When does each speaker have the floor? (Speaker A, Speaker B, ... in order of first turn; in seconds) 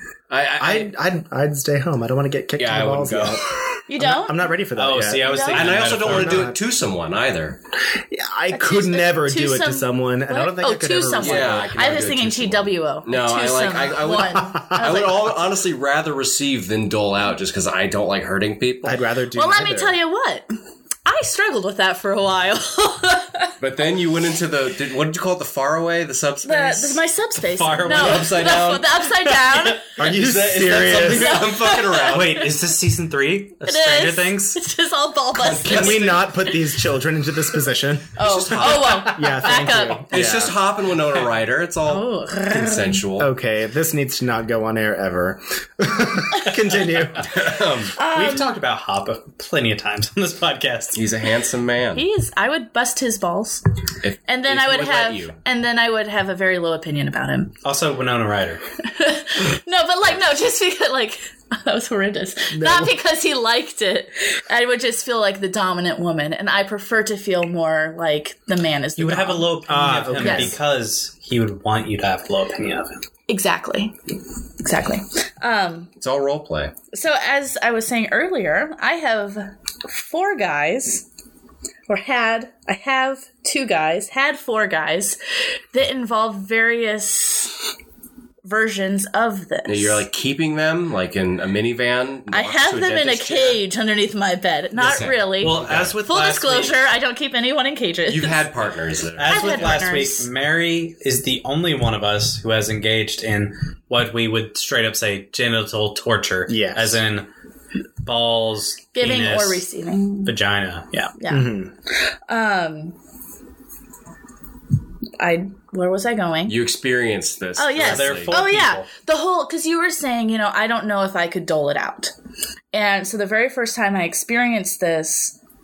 Speaker A: 0.3-0.9, 2.6-3.8, 5.5-7.6, 11.1-19.1, 23.6-27.0, 27.9-28.8, 30.3-32.4, 35.3-36.4, 38.2-39.2, 40.1-43.3, 47.2-48.0, 50.9-52.1, 54.0-55.4, 76.0-76.8, 89.7-93.6, 94.8-96.0, 98.1-99.8, 116.5-118.4
Speaker B: 0.6-3.5, 4.0-6.6, 8.1-11.9, 14.4-15.1, 18.8-20.0, 30.0-31.4, 35.6-38.2, 39.0-40.6, 43.2-47.6, 62.5-63.0, 69.7-70.6, 106.5-107.0, 111.3-111.7
Speaker C: 3.9-4.5, 5.1-5.8, 8.5-15.5, 19.3-20.5, 21.1-23.5, 26.4-30.0, 31.1-32.5, 33.6-36.4, 38.2-40.4, 41.9-43.0, 48.0-48.5, 51.9-53.6, 54.3-57.6, 58.8-69.6, 70.2-70.6, 73.3-73.9, 74.6-75.9, 76.9-81.0, 81.9-85.2, 85.7-87.6, 88.5-90.0, 92.3-98.5, 99.3-100.3, 109.0-110.4, 111.2-111.5, 112.1-113.0, 115.2-116.6, 117.6-122.1, 122.7-125.4
Speaker D: 4.8-6.5, 27.5-31.5, 32.1-34.6, 38.6-39.5, 48.1-51.0, 57.6-58.6, 69.0-73.0, 95.4-96.9, 99.2-107.3, 108.0-109.7, 110.2-111.2, 117.8-118.9